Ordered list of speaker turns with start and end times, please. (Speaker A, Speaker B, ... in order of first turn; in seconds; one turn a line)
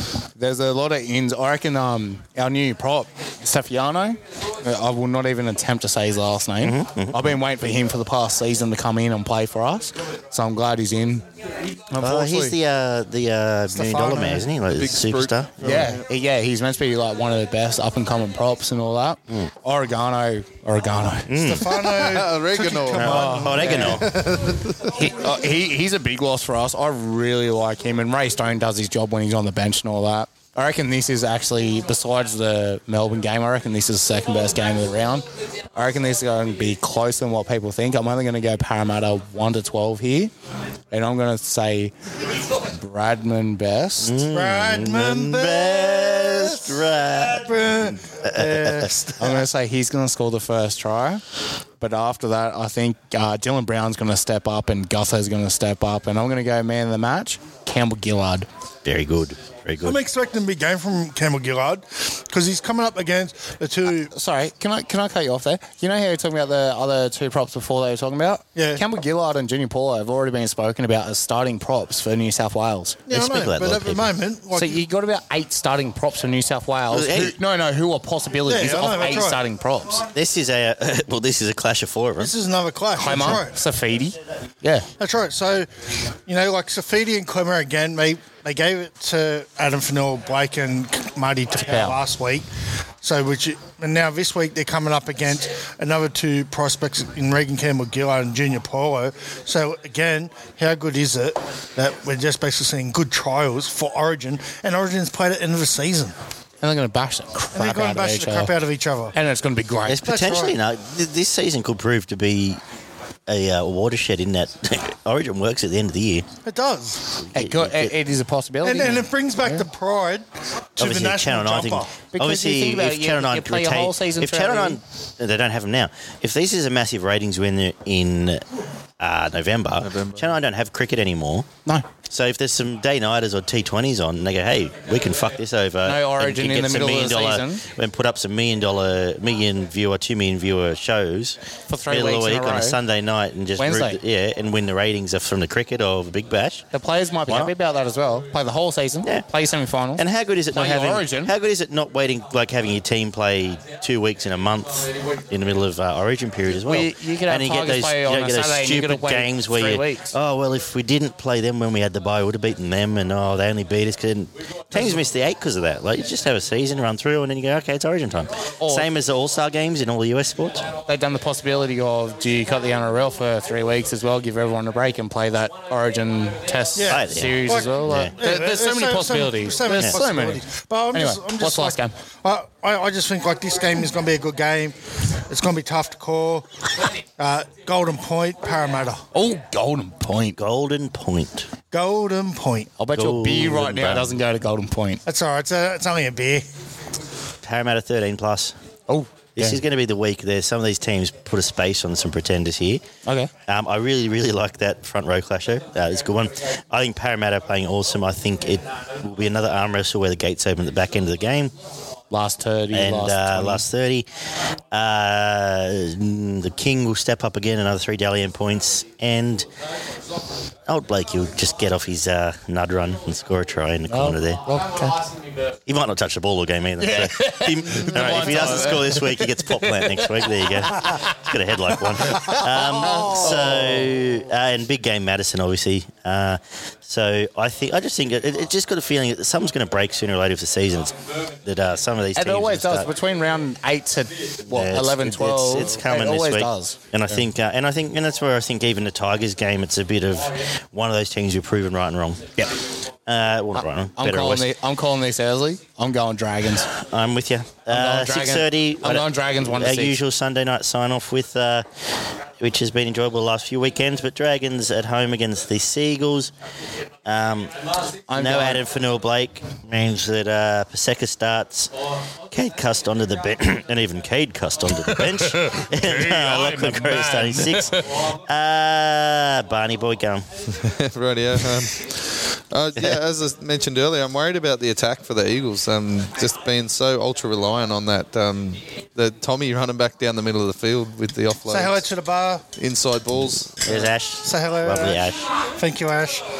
Speaker A: 0.4-11.2
Speaker B: 6.6-7.3
Speaker A: 11.9-12.6
Speaker B: 12.0-15.5
Speaker C: 13.7-14.4
Speaker D: 14.7-16.0
Speaker A: 15.6-21.6
Speaker B: 21.3-21.8
Speaker C: 21.4-24.0
Speaker D: 21.8-25.1
Speaker B: 22.9-24.2
Speaker A: 23.0-24.0
Speaker A: 24.9-40.3
Speaker A: 40.9-41.9
Speaker A: 42.8-44.2
Speaker B: 44.0-49.0
Speaker C: 44.2-49.4
Speaker A: 49.2-51.2
Speaker A: 51.8-58.5
Speaker B: 58.8-60.0
Speaker C: 59.8-64.1
Speaker A: 63.9-73.0
Speaker C: 68.5-68.8
Speaker C: 73.1-74.8
Speaker B: 73.1-74.1
Speaker A: 74.5-80.0
Speaker B: 76.9-77.3
Speaker C: 78.5-79.4
Speaker B: 80.1-82.3
Speaker C: 82.2-83.5
Speaker A: 83.0-84.9
Speaker C: 85.0-85.7
Speaker C: 86.2-92.5
Speaker A: 91.7-92.0
Speaker C: 93.0-106.2
Speaker A: 106.6-108.5
Speaker C: 107.5-109.1
Speaker A: 109.1-110.0
Speaker B: 109.8-112.6
Speaker C: 110.0-110.6
Speaker B: 113.3-116.3
Speaker C: 116.4-117.2
Speaker B: 117.2-117.9
Speaker A: 117.3-119.7
Speaker C: 118.6-121.9
Speaker B: 120.8-128.4
Speaker A: 122.1-124.8
Speaker B: 129.0-131.5
Speaker D: 129.8-130.4
Speaker B: 132.1-146.7
Speaker A: 135.8-137.6
Speaker A: 141.7-142.8
Speaker A: 143.6-144.0
Speaker A: 146.7-151.3
Speaker B: 147.3-147.5
Speaker B: 149.9-170.7
Speaker A: 156.7-160.1
Speaker A: 168.6-168.9
Speaker A: 170.9-181.9
Speaker C: 176.7-184.8
Speaker B: 176.9-178.1
Speaker C: 185.3-186.5
Speaker C: 187.2-189.0
Speaker A: 189.1-190.4
Speaker B: 190.4-191.5
Speaker C: 191.7-192.7
Speaker A: 192.8-195.0
Speaker B: 192.9-194.2
Speaker C: 195.0-196.4
Speaker B: 197.4-198.6
Speaker A: 198.9-199.6
Speaker B: 199.4-202.8
Speaker A: 203.0-203.3
Speaker B: 203.5-211.5
Speaker A: 212.1-213.6
Speaker B: 212.7-214.1
Speaker B: 214.7-219.5
Speaker B: 220.7-224.5
Speaker A: 223.9-225.1
Speaker B: 225.7-242.9
Speaker A: 226.8-231.1
Speaker A: 231.7-233.9
Speaker A: 242.2-247.2
Speaker B: 244.5-252.2
Speaker B: 253.1-254.5
Speaker A: 253.6-256.7
Speaker B: 256.7-261.7
Speaker A: 257.7-260.0
Speaker B: 262.4-266.3
Speaker B: 267.0-267.5
Speaker A: 268.1-268.6
Speaker B: 268.1-271.7
Speaker B: 272.3-280.3
Speaker A: 274.9-277.9
Speaker D: 280.5-291.8
Speaker C: 291.5-292.4
Speaker D: 292.6-293.9
Speaker B: 293.6-295.2
Speaker C: 294.2-296.2